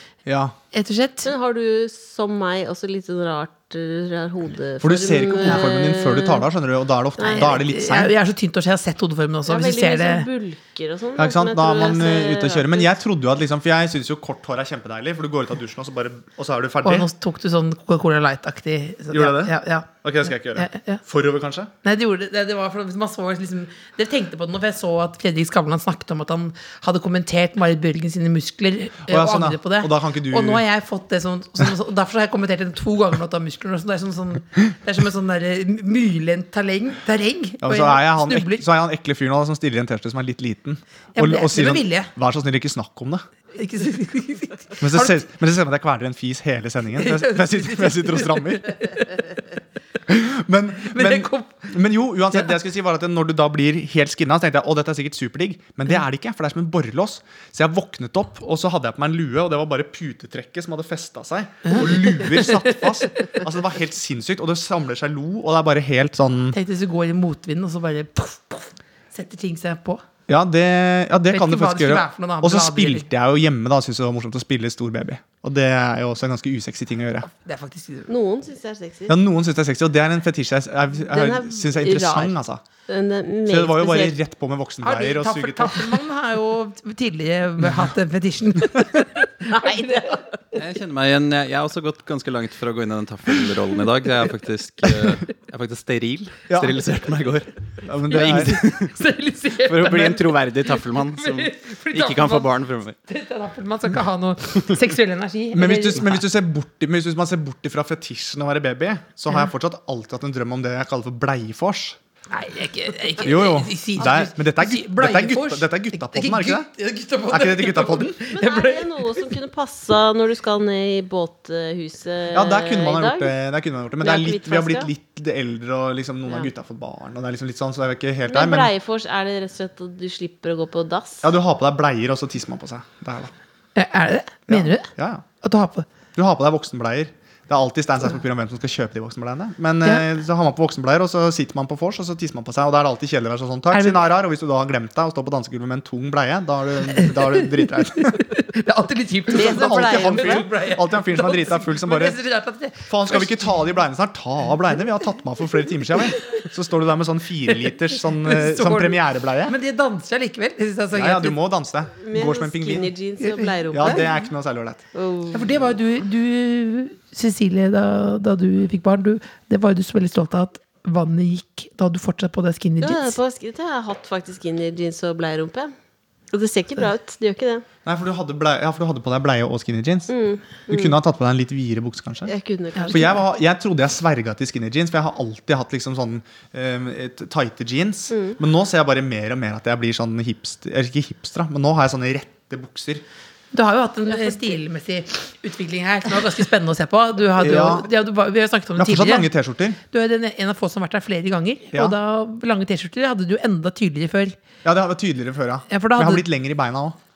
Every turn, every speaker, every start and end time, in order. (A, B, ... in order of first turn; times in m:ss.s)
0:00.2-0:00.6 A
0:00.7-0:01.3 B
0:01.2-0:06.4 C
0:04.8-0:08.1 A
0:07.2-0:07.5 C
0:07.3-0:10.3 B
0:09.5-0:12.9 C
0:11.2-0:17.1 A
0:16.8-0:21.0 B
0:19.1-0:21.7 A
0:21.8-0:38.6 B
0:29.1-0:30.6 A
0:37.6-0:43.2 A
0:41.2-0:42.1 B
0:43.6-0:45.2 B
0:44.8-0:48.9 A
0:47.0-0:49.4 B
0:50.1-1:06.6 A
0:50.9-0:51.6 B
1:01.6-1:03.3 B
1:06.5-1:10.0 B
1:10.3-1:17.3 A
1:11.3-1:13.0 B
1:17.2-1:18.1 B
1:18.1-1:19.2 C
1:19.1-1:22.6 A
1:21.1-1:22.3 C
1:22.8-1:24.2 C
1:23.5-1:25.9 A
1:24.8-1:30.2 B
1:29.5-1:30.2 C
1:30.5-1:38.9 D
1:36.5-1:36.8 A
1:37.8-1:38.7 A
1:38.1-1:42.5 B
1:39.6-1:43.0 D
1:43.0-1:46.2 B
1:45.5-1:52.0 A
1:52.3-1:59.3 B
1:53.2-1:56.7 A
1:57.3-1:58.2 A
1:58.3-2:03.3 C
2:02.3-2:08.7 A
2:04.0-2:04.9 C
2:08.3-2:11.3 C
2:11.2-2:13.3 A
2:13.8-2:14.9 B
2:14.5-2:15.2 A
2:15.4-2:15.9 B
2:16.1-2:28.2 A
2:23.7-2:24.0 B
2:27.0-2:33.6 B
2:29.3-2:30.4 C
2:29.3-2:32.2 A
2:32.8-2:39.6 A
2:38.2-2:41.4 B
2:40.9-2:42.9 A
2:42.0-2:44.1 C
2:43.2-2:44.2 B
2:43.7-2:44.8 A
2:44.9-2:45.6 C
2:45.3-2:53.2 B
2:52.8-2:55.7 C
2:56.3-2:57.6 C
2:57.8-3:02.3 A
3:00.1-3:00.9 C
3:02.2-3:03.2 C
3:02.8-3:03.1 B
3:02.9-3:13.0 A
3:08.1-3:08.4 C
3:13.5-3:19.3 B
3:17.4-3:17.9 A
3:18.8-3:19.8 A
3:19.9-3:24.4 B
3:24.6-3:27.0 A
3:25.7-3:26.2 B